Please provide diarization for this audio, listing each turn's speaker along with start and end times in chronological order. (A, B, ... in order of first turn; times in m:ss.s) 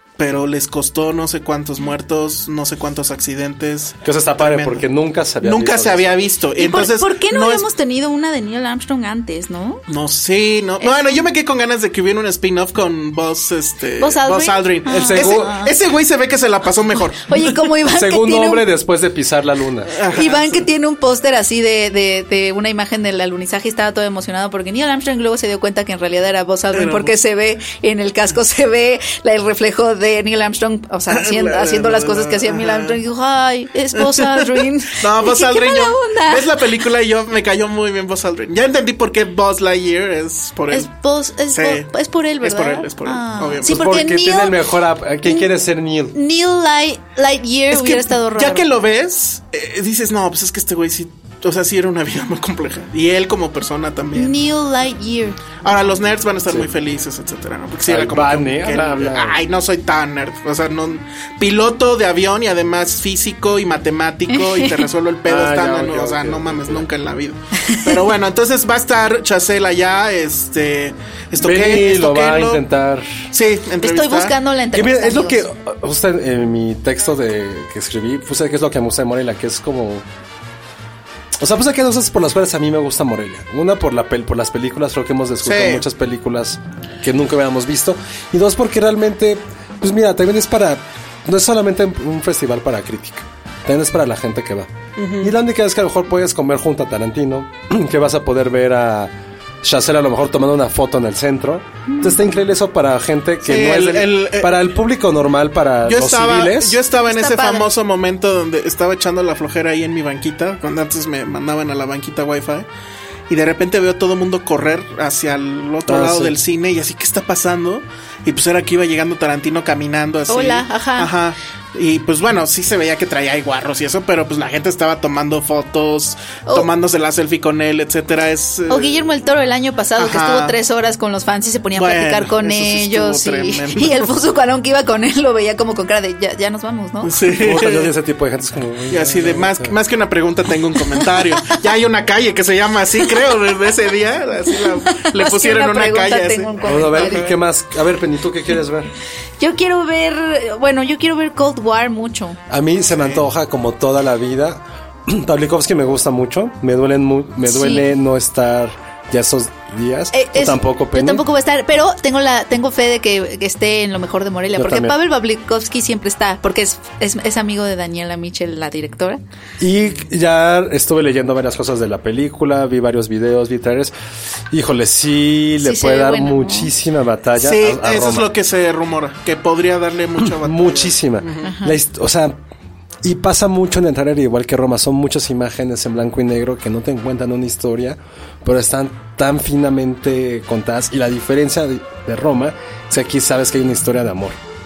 0:00.2-0:04.8 A
0:04.0-0:06.2 B
0:05.4-0:07.6 A
0:06.6-0:09.8 C
0:09.9-0:17.6 A
0:10.8-0:11.2 C
0:14.0-0:15.7 C
0:14.9-0:15.5 B
0:17.1-0:18.6 C
0:17.9-0:19.9 B
0:19.9-0:20.7 A
0:20.1-0:36.6 C
0:26.7-0:27.1 A
0:31.1-0:33.0 A
0:33.9-0:40.9 A
0:40.7-0:44.6 C
0:41.5-0:43.8 A
0:43.6-0:46.2 B
0:46.1-0:48.6 C
0:47.7-0:54.4 A
0:54.1-0:55.4 C
0:55.6-1:12.6 A
0:57.8-0:59.4 B
1:04.3-1:04.8 C
1:05.2-1:06.9 B
1:07.6-1:07.9 C
1:11.4-1:13.1 B
1:13.3-1:14.4 A
1:13.8-1:15.4 C
1:14.7-1:20.0 B
1:21.4-1:46.8 B
1:25.4-1:25.8 A
1:35.0-1:35.3 A
1:43.4-1:44.6 A
1:45.8-1:52.7 A
1:47.1-1:47.7 C
1:53.3-2:09.0 A
1:55.9-1:56.4 B
2:00.3-2:01.1 C
2:08.7-2:17.1 C
2:10.0-2:10.6 A
2:11.8-2:14.1 A
2:17.0-2:17.9 A
2:17.4-2:19.7 B
2:18.9-2:27.3 A
2:24.5-2:27.3 C
2:26.6-2:28.9 B
2:29.4-2:32.4 C
2:32.5-2:41.2 B
2:33.0-2:33.2 A
2:37.4-2:37.8 C
2:40.1-2:49.2 C
2:44.5-2:45.0 B
2:49.6-2:53.9 B
2:54.5-2:58.3 B
2:55.6-2:56.7 C
2:57.4-3:01.5 A
3:00.3-3:02.4 B
3:01.4-3:01.8 C
3:03.0-3:14.4 B